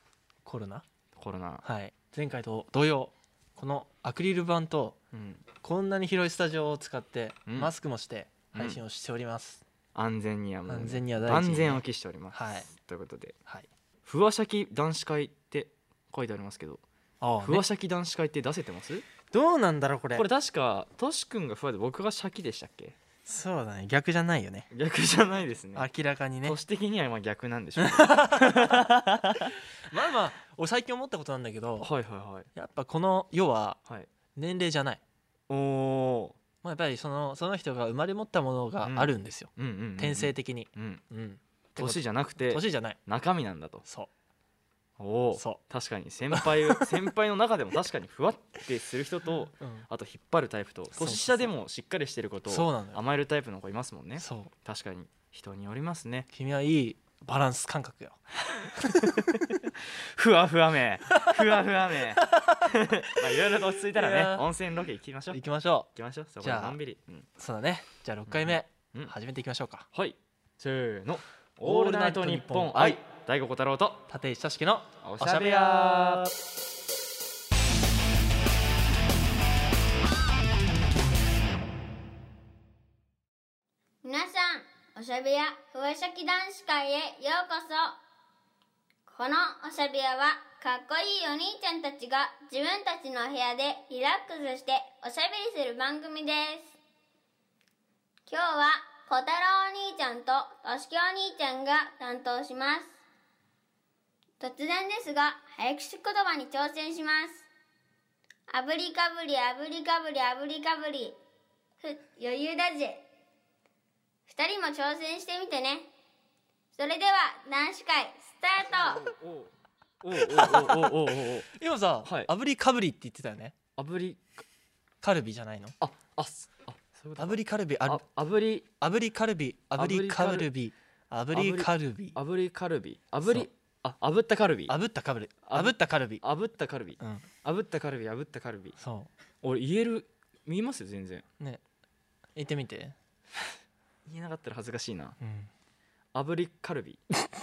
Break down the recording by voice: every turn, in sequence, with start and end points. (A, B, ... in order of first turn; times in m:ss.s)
0:00.4-0:00.8 A
0:01.2-0:01.6 B
0:01.6-0:05.0 A
0:05.1-0:05.4 B
0:05.6-0:09.6 A
0:07.5-0:07.7 B
0:08.5-0:08.8 B
0:10.0-0:13.4 B
0:10.7-0:12.7 A
0:14.0-0:16.8 B
0:17.2-0:17.6 A
0:17.4-0:19.1 B
0:19.3-0:20.3 A
0:20.2-0:23.0 B
0:23.3-0:24.7 A
0:24.7-0:25.9 B
0:25.8-0:26.6 A
0:26.4-0:29.5 B
0:27.8-0:28.9 A
0:29.9-0:31.9 A
0:31.8-0:32.5 B
0:32.6-0:33.8 A
0:34.3-0:35.0 A
0:35.5-0:36.4 B
0:36.6-0:43.0 A
0:38.8-0:41.0 B
0:41.8-0:43.8 B
0:45.0-0:56.3 B
0:45.4-0:45.6 A
0:46.3-0:47.0 A
0:49.6-0:49.9 A
0:51.0-0:51.5 A
0:52.5-0:53.0 A
0:54.2-0:54.5 A
0:56.3-0:59.4 A
0:58.9-1:05.4 B
1:02.2-1:04.5 A
1:05.3-1:05.9 A
1:06.0-1:07.3 B
1:06.4-1:06.8 A
1:07.4-1:09.9 A
1:08.3-1:09.1 B
1:09.9-1:14.0 B
1:11.6-1:13.0 A
1:14.1-1:16.3 A
1:15.0-1:16.3 B
1:24.0-1:28.0 C
1:29.1-1:36.8 C
1:38.3-1:43.0 C
1:44.4-1:47.5 C
1:48.5-1:51.2 C
1:51.8-1:53.0 C
1:54.3-1:55.9 C
1:56.8-1:59.0 C
1:58.7-2:01.5 B
2:00.3-2:03.6 A
2:02.0-2:02.3 B
2:03.8-2:04.3 B
2:05.0-2:05.8 A
2:05.8-2:08.7 B
2:07.2-2:08.0 A
2:08.8-2:12.2 A
2:09.8-2:10.5 B
2:11.3-2:14.8 B
2:14.7-2:16.2 A
2:15.4-2:18.8 B
2:17.0-2:17.3 A
2:18.8-2:19.1 A
2:19.4-2:21.2 B
2:22.4-2:23.0 A
2:24.1-2:25.2 B
2:25.2-2:25.5 A
2:26.1-2:27.0 B